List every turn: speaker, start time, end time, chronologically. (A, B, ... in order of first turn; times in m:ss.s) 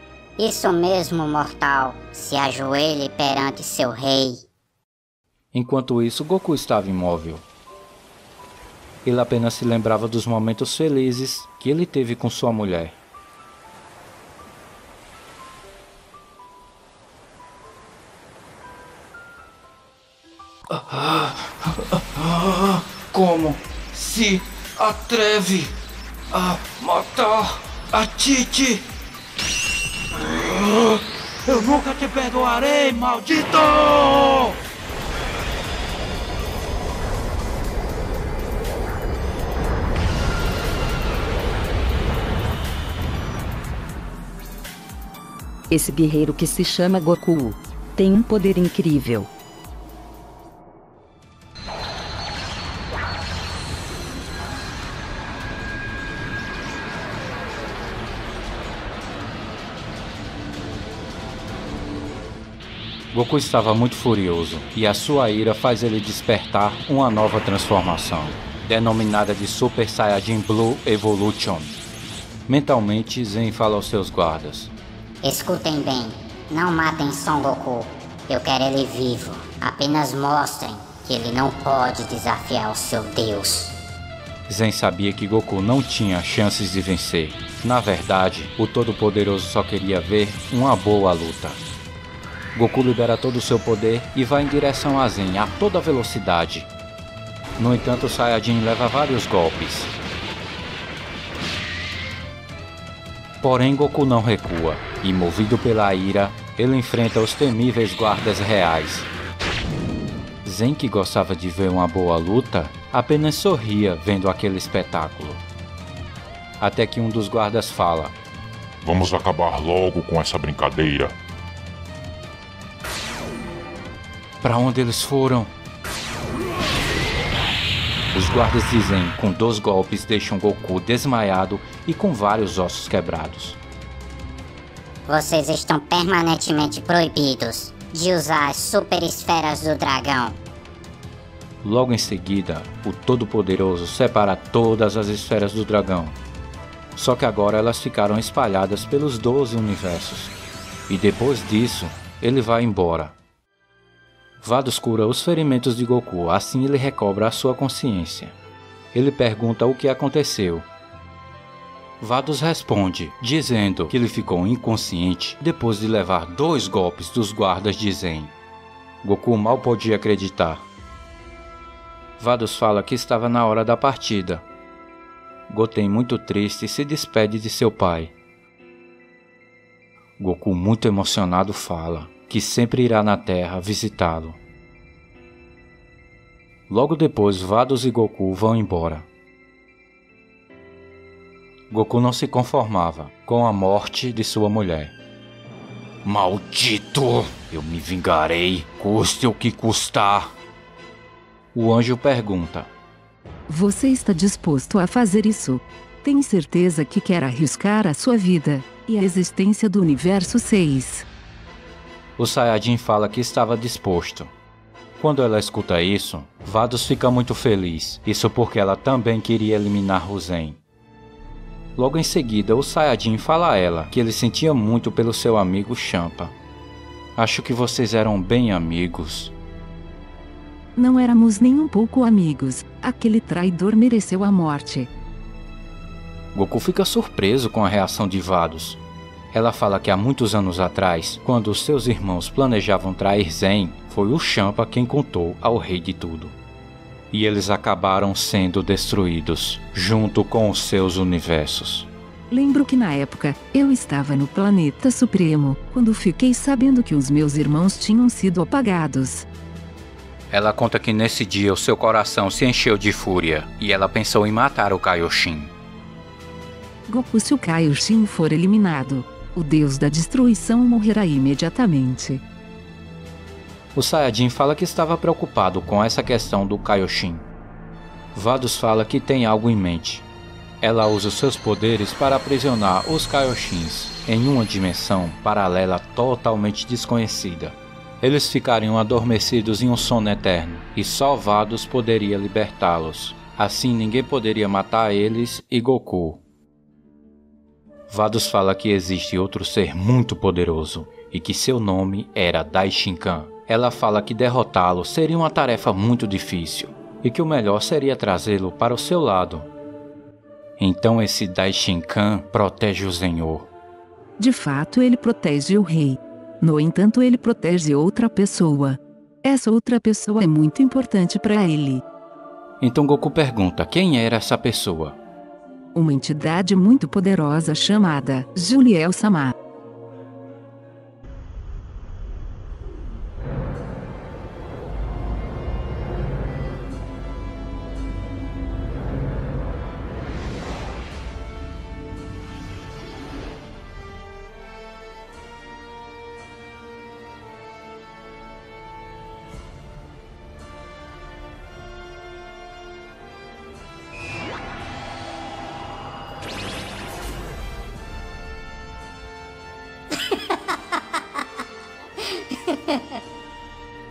0:00.4-0:04.4 A
0:05.5-0:07.4 B
0:09.0-0:13.0 B
0:20.7-0:25.7 B
0:26.3-0:28.9 B
0:30.1-0:34.6 B
0:45.7-0:49.3 C
1:03.1-1:11.8 B
1:12.5-1:14.7 B
1:15.2-1:23.7 A
1:24.5-1:31.6 B
1:32.5-1:36.7 B
1:37.6-1:39.9 B
1:43.4-1:49.1 B
1:50.4-1:55.4 B
1:56.6-1:58.2 B
1:58.8-2:01.2 D
2:04.4-2:05.5 B
2:08.1-2:13.6 B
2:15.1-2:20.4 A
2:21.6-2:26.2 B
2:27.0-2:30.3 B
2:30.9-2:33.2 B
2:34.4-2:38.4 B
2:38.9-2:40.7 B
2:42.0-2:48.3 B
2:49.0-2:50.7 B
2:52.2-2:54.4 B
2:55.5-2:58.1 B
3:00.2-3:04.4 B
3:06.7-3:09.1 B
3:11.7-3:15.0 B
3:16.0-3:20.3 B
3:21.5-3:22.7 B
3:23.5-3:31.1 E
3:32.2-3:34.3 B
3:35.0-3:40.6 B
3:41.8-3:46.4 B
3:47.2-3:49.3 B
3:50.8-3:54.9 E
3:56.3-3:58.8 B
3:59.3-4:06.4 B
4:07.1-4:11.9 B
4:12.3-4:19.3 E
4:20.3-4:25.5 B
4:26.9-4:32.2 E
4:33.8-4:37.2 B
4:38.1-4:40.1 B
4:40.6-4:56.2 B
4:57.9-5:09.5 B
5:10.6-5:13.5 B
5:14.2-5:21.8 E
5:22.6-5:25.0 B
5:25.8-5:29.4 E
6:02.5-6:02.8 A